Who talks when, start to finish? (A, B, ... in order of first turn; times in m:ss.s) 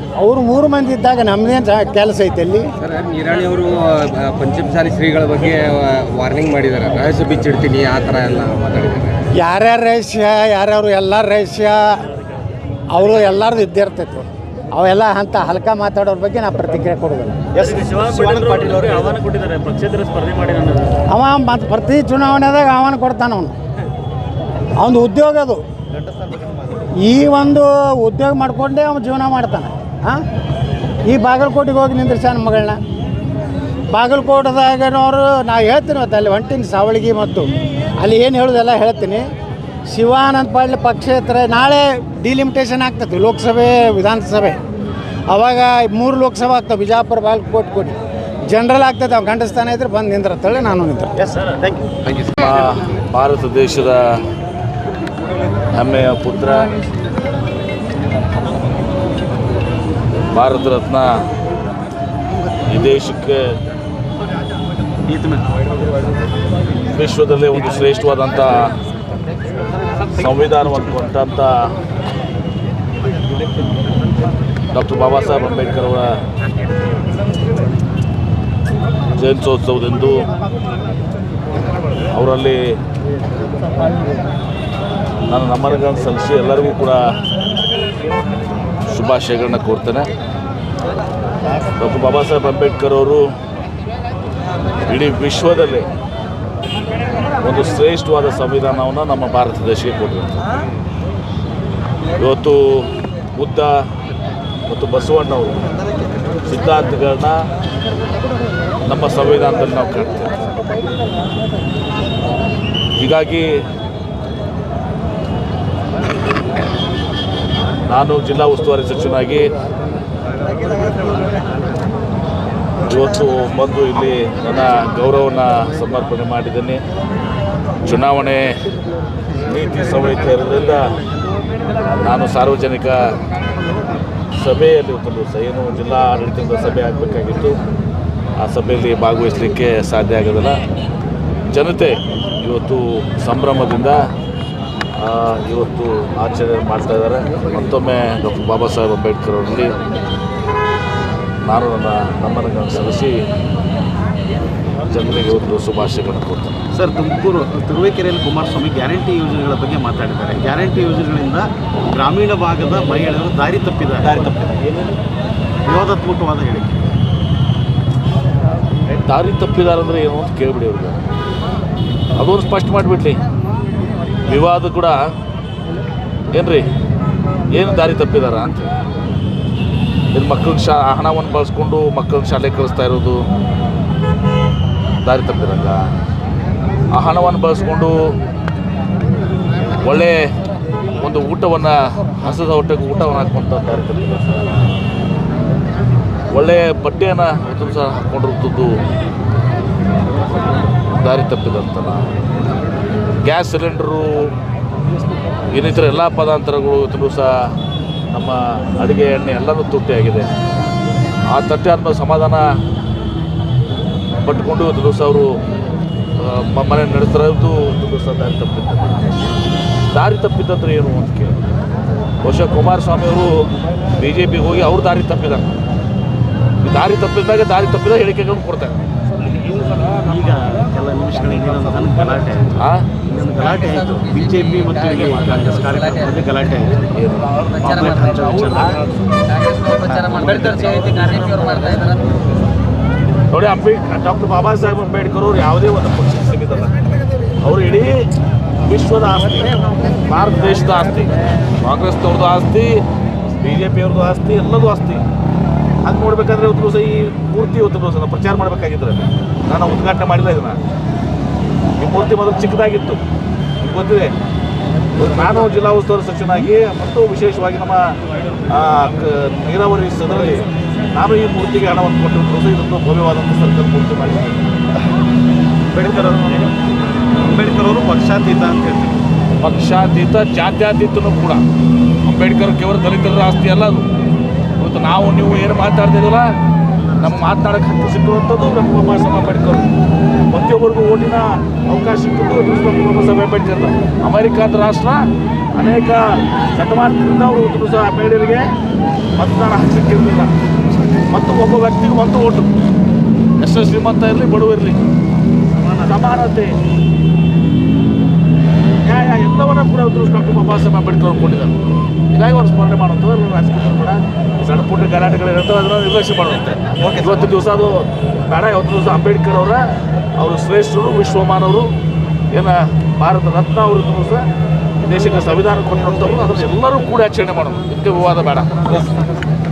0:00.2-0:02.7 A
0:02.8-0:09.2 B
0:09.4-0:11.8 A
0:12.9-0:17.4 A
0:17.6-0:20.9 C
0:18.2-0:20.1 B
0:21.1-0:23.5 A
0:24.8-0:25.6 A
0:27.0-0:30.2 A
0:31.0-0:32.8 A
0:33.9-0:39.2 A
0:39.9-0:44.6 A
0:45.3-0:48.0 A
0:48.5-0:51.1 A
0:51.2-0:51.9 C
0:52.4-0:54.0 D
0:55.7-0:56.7 D
1:00.3-1:01.1 D
1:02.7-1:03.4 D
1:05.1-1:05.4 C
1:06.9-1:08.6 D
1:10.1-1:11.5 D
1:14.7-1:16.1 D
1:19.2-1:20.2 D
1:22.1-1:22.6 D
1:25.3-1:27.0 D
1:28.9-1:30.1 D
1:31.8-1:33.2 D
1:34.9-1:35.9 D
1:37.4-1:40.4 D
1:42.2-1:43.7 D
1:44.7-1:45.6 D
1:46.5-1:47.3 D
1:48.9-1:50.3 D
1:53.0-1:53.5 D
1:57.9-1:59.5 D
2:02.9-2:06.8 D
2:07.8-2:08.4 D
2:09.5-2:10.8 D
2:12.0-2:12.9 D
2:14.4-2:17.5 D
2:18.4-2:20.6 D
2:21.5-2:24.0 D
2:25.0-2:29.8 D
2:31.4-2:33.2 D
2:34.9-2:36.5 D
2:36.7-2:44.6 C
2:45.7-2:46.8 C
2:49.0-2:51.0 D
2:52.2-2:53.2 D
2:54.3-2:55.0 D
2:56.3-2:56.6 D
2:57.5-2:58.7 D
3:00.1-3:03.2 D
3:05.0-3:05.8 D
3:06.9-3:07.9 D
3:09.8-3:10.2 D
3:11.0-3:14.4 D
3:16.3-3:18.8 D
3:21.0-3:22.0 D
3:23.2-3:24.3 D
3:25.5-3:27.3 D
3:28.1-3:30.3 D
3:31.3-3:32.4 D
3:34.2-3:35.3 D
3:36.2-3:39.1 D
3:39.9-3:41.4 D
3:42.2-3:43.5 D
3:44.0-3:45.5 D
3:46.6-3:48.8 D
3:49.6-3:56.8 C
3:52.6-3:52.8 D
3:54.1-3:55.0 B
3:55.5-3:56.0 B
3:56.8-3:58.8 D
3:57.6-3:58.8 C
3:59.4-4:02.0 B
4:00.3-4:00.6 D
4:03.3-4:06.7 D
4:07.4-4:07.9 D
4:08.7-4:12.8 D
4:13.4-4:15.0 D
4:15.8-4:20.6 D
4:21.8-4:23.0 D
4:23.6-4:24.1 D
4:25.0-4:27.8 D
4:28.5-4:34.4 D
4:35.7-4:36.5 C
4:37.2-4:39.0 C
4:39.4-4:41.4 D
4:42.0-4:43.8 D
4:44.6-4:46.2 D
4:47.0-4:49.7 D
4:50.3-4:55.0 D
4:55.5-4:56.0 D
4:56.5-4:58.5 D
4:59.2-5:00.3 D
5:01.1-5:02.5 D
5:03.4-5:04.8 D
5:05.5-5:06.2 C
5:05.8-5:06.5 D
5:08.8-5:11.5 D
5:12.1-5:19.6 D
5:20.2-5:21.7 D
5:22.3-5:24.2 D
5:24.8-5:28.8 D